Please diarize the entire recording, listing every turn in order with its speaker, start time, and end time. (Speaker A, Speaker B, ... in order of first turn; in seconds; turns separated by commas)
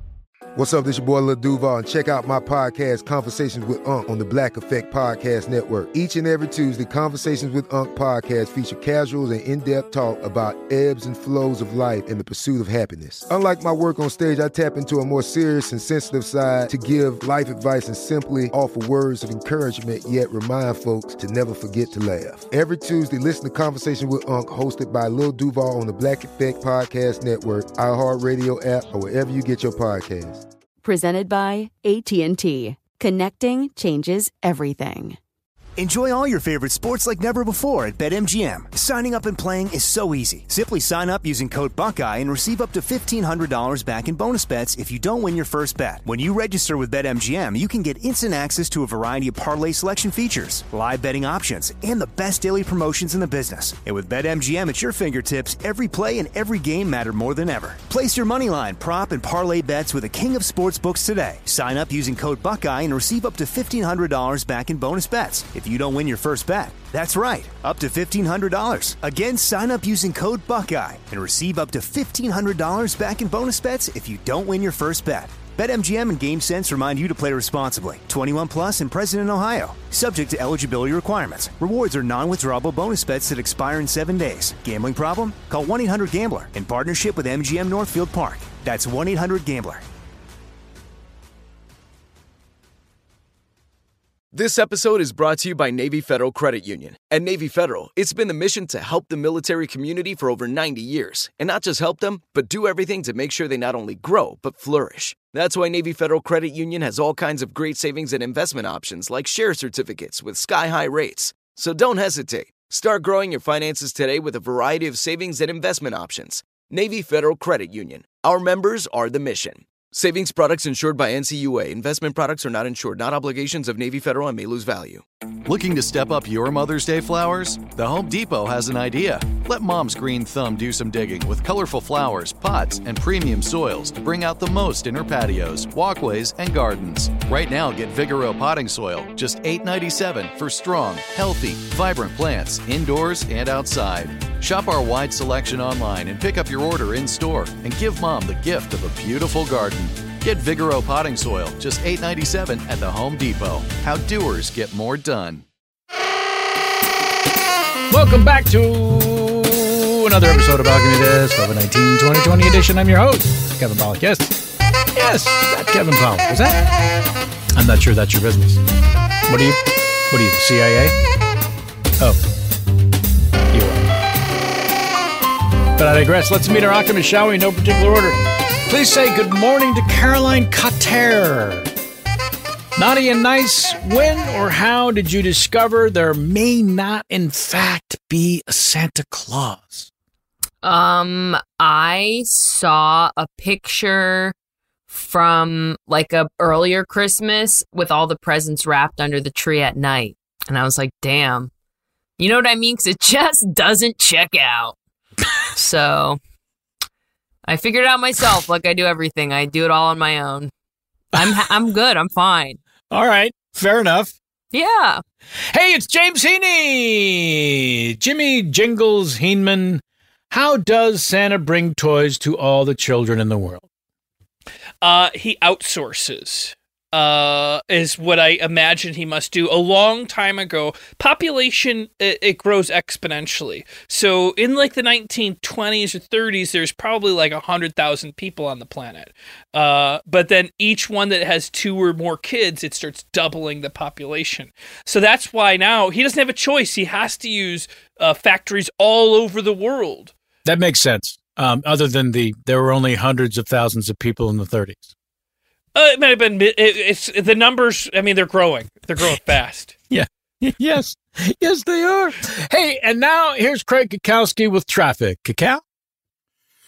Speaker A: 0.6-30.4, Speaker B: 30.8-35.2, Speaker C: 35.8-89.8, Speaker D: 94.3-125.0, Speaker E: 125.5-155.4, Speaker F: 157.9-164.4, Speaker F: 164.9-166.7, Speaker F: 167.6-168.6, Speaker F: 169.3-170.9, Speaker F: 173.5-173.9, Speaker F: 175.8-181.7, Speaker F: 182.8-189.9, Speaker G: 190.6-194.3, Speaker G: 194.9-201.5, Speaker G: 202.2-204.8, Speaker G: 205.6-206.2, Speaker G: 207.5-210.5, Speaker G: 211.2-212.6, Speaker F: 212.9-214.1, Speaker G: 214.5-215.0, Speaker F: 215.5-223.7, Speaker H: 224.8-250.1, Speaker F: 250.4-254.9, Speaker H: 255.7-259.8, Speaker F: 259.9-265.6